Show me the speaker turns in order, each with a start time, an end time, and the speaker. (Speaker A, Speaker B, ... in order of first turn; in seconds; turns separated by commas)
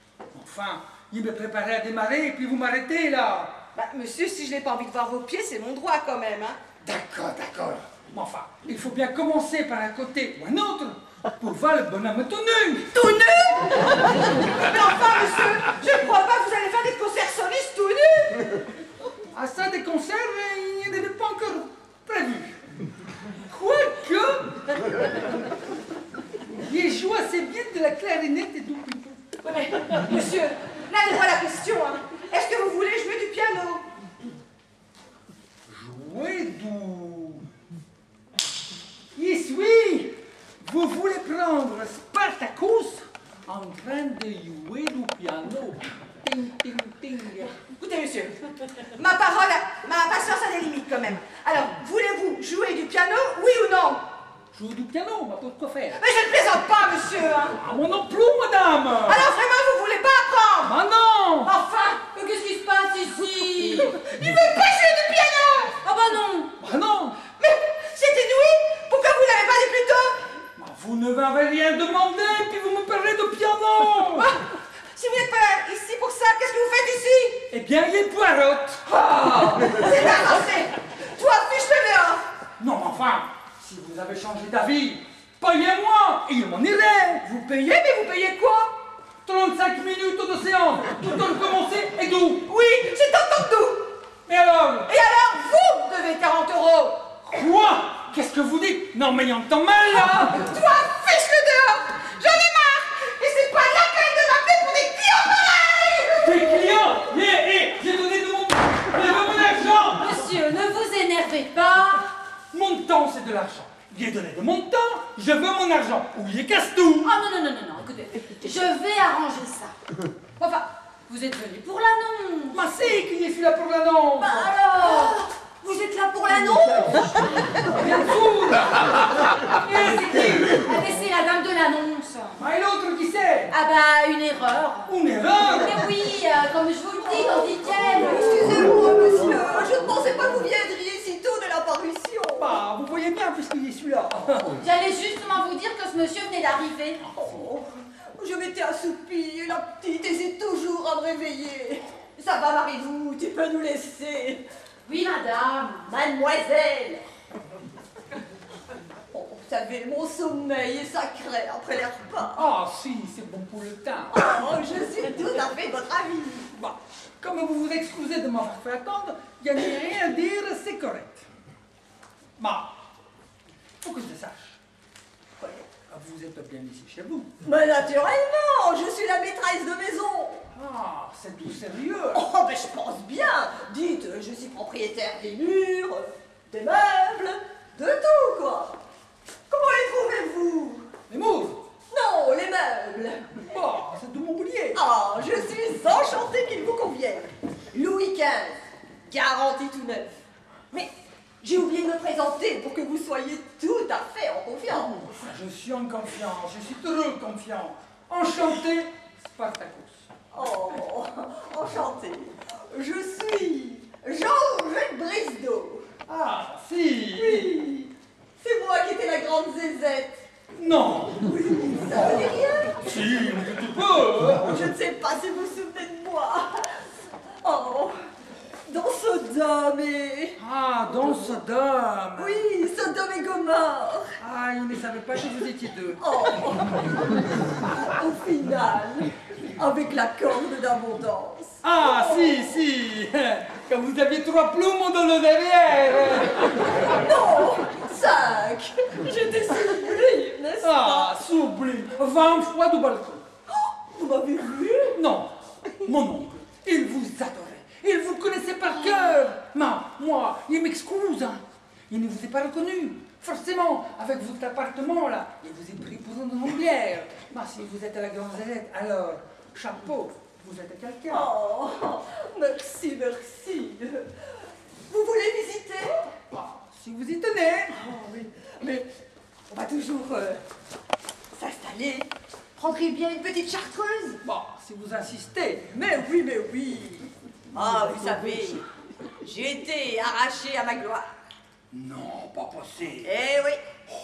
Speaker A: 0.3-3.6, Speaker B: 3.7-6.6, Speaker A: 6.8-12.9, Speaker B: 12.9-18.5, Speaker A: 19.3-22.6, Speaker A: 23.5-24.5, Speaker A: 26.6-29.2, Speaker B: 29.4-33.9, Speaker A: 35.7-37.4, Speaker A: 39.1-47.6, Speaker B: 47.7-54.0, Speaker A: 54.5-56.0, Speaker B: 56.0-57.6, Speaker A: 57.6-59.2, Speaker B: 59.0-60.7, Speaker A: 60.6-61.5, Speaker B: 61.4-62.0, Speaker C: 62.0-64.0, Speaker B: 63.9-65.7, Speaker C: 65.8-66.5, Speaker A: 66.6-67.2, Speaker B: 67.3-70.2, Speaker A: 70.6-74.3, Speaker B: 74.1-74.4, Speaker B: 74.9-77.5, Speaker A: 77.5-78.8, Speaker B: 78.8-82.3, Speaker A: 82.6-87.4, Speaker B: 87.3-88.8, Speaker A: 89.2-92.5, Speaker B: 92.5-93.9, Speaker A: 94.3-94.9, Speaker B: 94.9-97.2, Speaker A: 97.3-100.5, Speaker B: 100.0-106.4, Speaker A: 106.2-110.1, Speaker C: 110.0-112.1, Speaker A: 112.5-117.1, Speaker C: 117.0-119.7, Speaker C: 120.4-122.8, Speaker A: 122.5-124.3, Speaker C: 124.2-127.2, Speaker A: 127.7-129.0, Speaker C: 129.6-132.4, Speaker A: 129.6-130.4, Speaker A: 132.3-133.5, Speaker C: 133.5-138.5, Speaker A: 134.9-135.9, Speaker D: 137.2-142.6, Speaker A: 142.4-144.6, Speaker C: 144.6-147.0, Speaker D: 147.1-154.4, Speaker C: 154.8-155.9, Speaker D: 155.8-157.0, Speaker D: 159.1-162.5, Speaker A: 162.4-164.1, Speaker D: 164.1-166.5, Speaker A: 166.6-171.2, Speaker A: 172.4-172.7, Speaker A: 173.8-174.6, Speaker A: 175.9-177.3, Speaker D: 177.4-180.5, Speaker A: 180.5-182.2, Speaker D: 182.1-188.8, Speaker D: 189.5-190.9, Speaker A: 191.1-191.6, Speaker D: 191.9-193.3, Speaker A: 193.4-194.8, Speaker D: 194.7-200.1, Speaker D: 200.7-205.1, Speaker A: 205.0-210.1, Speaker D: 210.3-215.9, Speaker A: 216.1-217.5, Speaker D: 217.1-220.2, Speaker A: 220.5-221.3, Speaker D: 221.2-222.9, Speaker A: 222.8-224.5, Speaker D: 224.3-226.8, Speaker D: 227.4-228.0, Speaker D: 228.7-230.4, Speaker A: 230.4-232.4, Speaker D: 232.2-234.2, Speaker A: 234.2-236.0, Speaker D: 236.0-237.1, Speaker D: 237.6-242.3, Speaker A: 241.6-246.5, Speaker D: 246.9-251.2, Speaker A: 250.6-253.2, Speaker D: 253.5-255.0, Speaker A: 254.9-271.3, Speaker D: 271.1-274.1, Speaker D: 274.9-276.1, Speaker A: 276.3-277.8, Speaker D: 277.7-278.9, Speaker D: 279.5-280.4, Speaker D: 281.3-284.2, Speaker A: 284.2-285.7, Speaker D: 285.7-288.6, Speaker D: 289.2-291.1, Speaker A: 291.7-293.1, Speaker D: 293.0-293.6